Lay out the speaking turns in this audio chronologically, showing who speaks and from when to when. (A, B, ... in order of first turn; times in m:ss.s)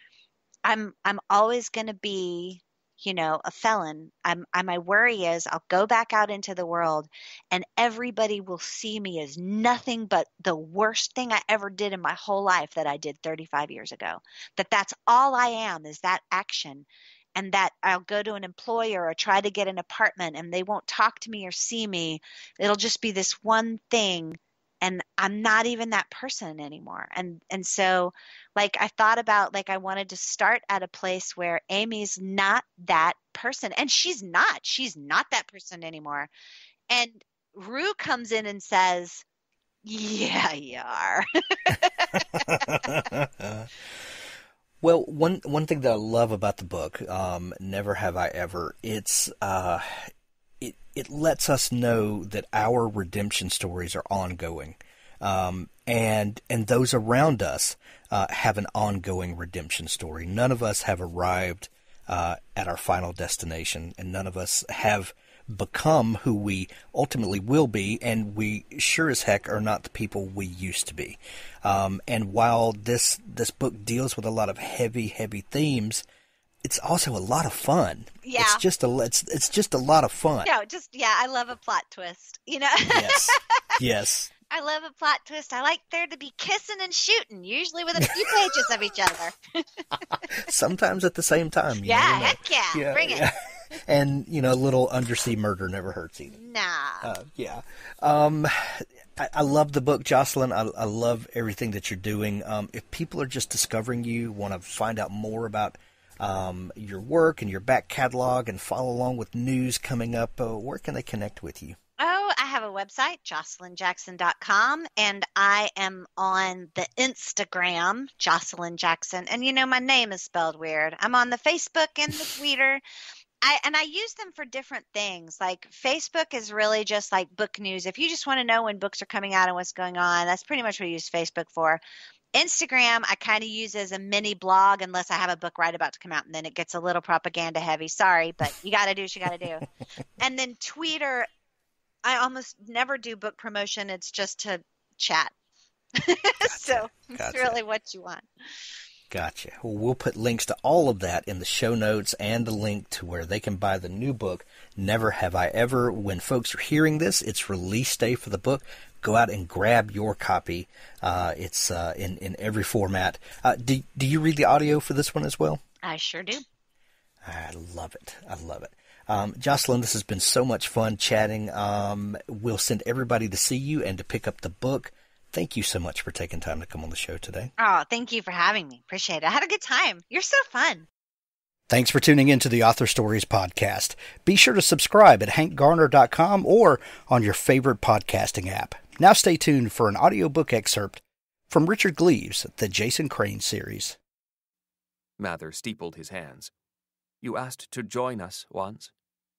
0:00.7-0:36.3 A
0:36.9-0:39.2 A
0:39.8-0:42.1 A
0:42.1-0:43.7 B
0:44.8-1:16.0 B
1:16.6-1:20.5 B
1:18.2-1:18.6 A
1:20.4-1:23.4 A
1:22.9-1:24.3 B
1:24.5-1:29.7 A
1:28.2-1:28.6 B
1:30.3-1:36.4 B
1:31.8-1:33.3 A
1:36.3-1:37.1 A
1:37.0-1:51.8 B
1:52.0-2:02.8 A
2:03.4-2:11.8 A
2:12.4-2:19.7 A
2:20.2-2:21.3 A
2:22.0-2:25.3 A
2:26.0-2:28.3 A
2:26.4-2:27.6 B
2:29.1-2:45.6 B
2:45.8-2:46.4 A
2:47.2-2:57.5 B
2:57.6-3:00.9 A
3:01.7-3:14.0 B
3:15.2-3:16.5 C
3:17.2-3:18.9 C